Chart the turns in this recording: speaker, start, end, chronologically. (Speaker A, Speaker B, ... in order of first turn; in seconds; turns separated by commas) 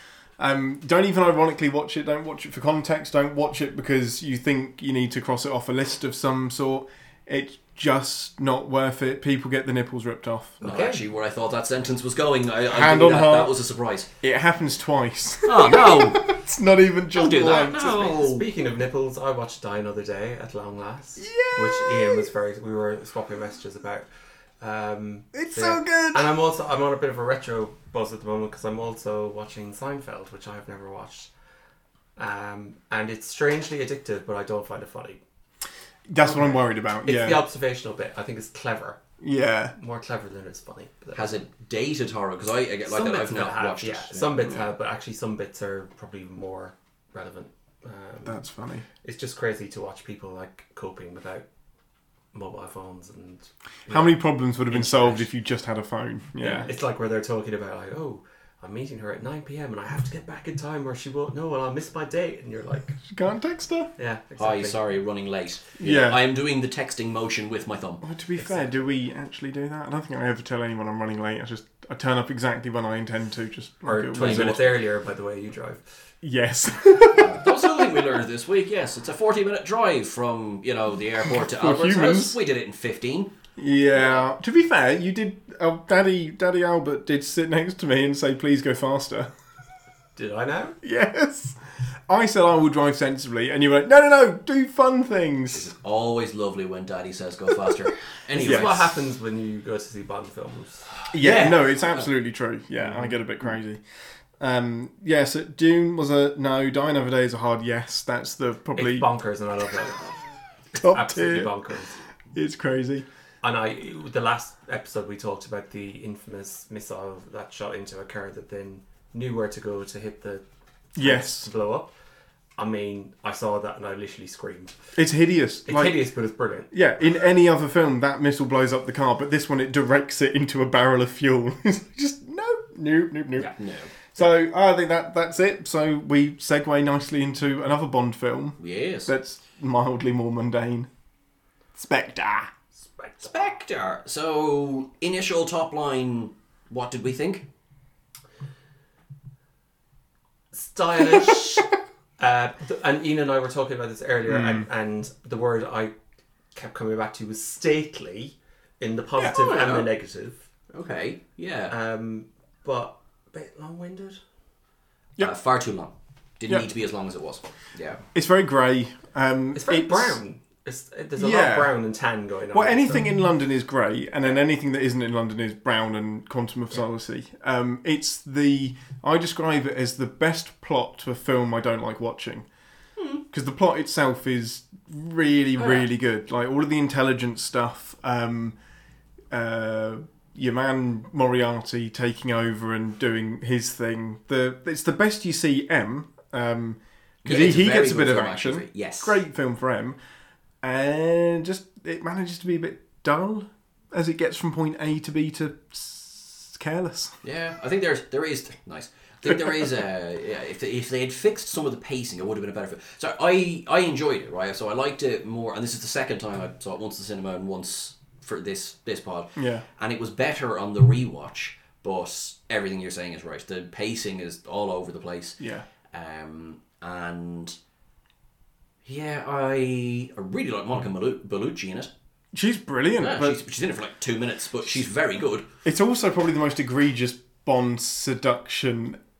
Speaker A: 0.4-10.6, Speaker B: 10.6-11.0, Speaker C: 10.6-14.1, Speaker A: 12.7-13.6, Speaker A: 14.2-18.0, Speaker C: 15.4-16.4, Speaker C: 17.1-18.4, Speaker B: 17.4-24.1, Speaker A: 21.2-22.3, Speaker B: 24.6-31.3, Speaker A: 25.3-26.3, Speaker B: 32.2-35.2, Speaker A: 36.1-37.4, Speaker B: 36.2-39.0, Speaker A: 39.2-39.7, Speaker B: 39.7-41.4, Speaker C: 41.1-44.4, Speaker B: 42.9-48.4, Speaker A: 48.2-48.9, Speaker B: 49.0-51.4, Speaker B: 52.3-55.3, Speaker A: 53.9-56.7, Speaker B: 56.4-63.0, Speaker A: 63.0-63.9, Speaker B: 64.0-64.8, Speaker C: 64.4-68.0, Speaker A: 65.8-66.2, Speaker A: 68.0-74.7, Speaker B: 68.4-68.8, Speaker B: 73.8-75.8, Speaker C: 74.2-74.7, Speaker A: 76.2-78.0, Speaker C: 77.1-83.3, Speaker A: 81.3-82.4, Speaker A: 83.6-89.3, Speaker B: 90.2-90.8, Speaker A: 90.8-95.7, Speaker C: 95.5-98.9, Speaker B: 98.3-101.0, Speaker A: 98.5-98.7, Speaker A: 101.1-103.8, Speaker C: 101.1-102.0, Speaker A: 104.4-109.1, Speaker B: 108.8-110.1, Speaker B: 110.7-112.0, Speaker A: 110.8-111.5, Speaker A: 112.3-113.0, Speaker B: 113.4-120.4, Speaker A: 121.0-121.5, Speaker B: 121.0-121.9, Speaker B: 122.6-124.8, Speaker A: 124.9-126.0, Speaker B: 125.7-126.7, Speaker A: 126.7-133.5, Speaker C: 133.4-133.9, Speaker A: 134.1-140.9, Speaker C: 138.6-139.1, Speaker A: 141.7-142.5, Speaker B: 142.8-143.3, Speaker C: 143.2-147.4, Speaker B: 150.5-155.9, Speaker A: 154.2-154.7, Speaker B: 156.5-160.4, Speaker C: 159.2-159.9, Speaker C: 160.7-161.7, Speaker B: 161.7-164.2, Speaker C: 165.2-168.0, Speaker A: 168.1-170.2, Speaker B: 169.5-173.1, Speaker A: 171.2-171.7, Speaker A: 172.5-182.5, Speaker A: 183.3-188.6, Speaker C: 185.6-185.8, Speaker A: 189.3-200.0, Speaker C: 197.2-199.2, Speaker A: 200.6-207.1, Speaker C: 207.2-225.4, Speaker A: 219.3-219.6, Speaker A: 225.4-225.6, Speaker C: 225.9-227.6, Speaker C: 228.8-231.9, Speaker A: 232.3-233.4, Speaker C: 233.0-235.5, Speaker A: 235.6-239.0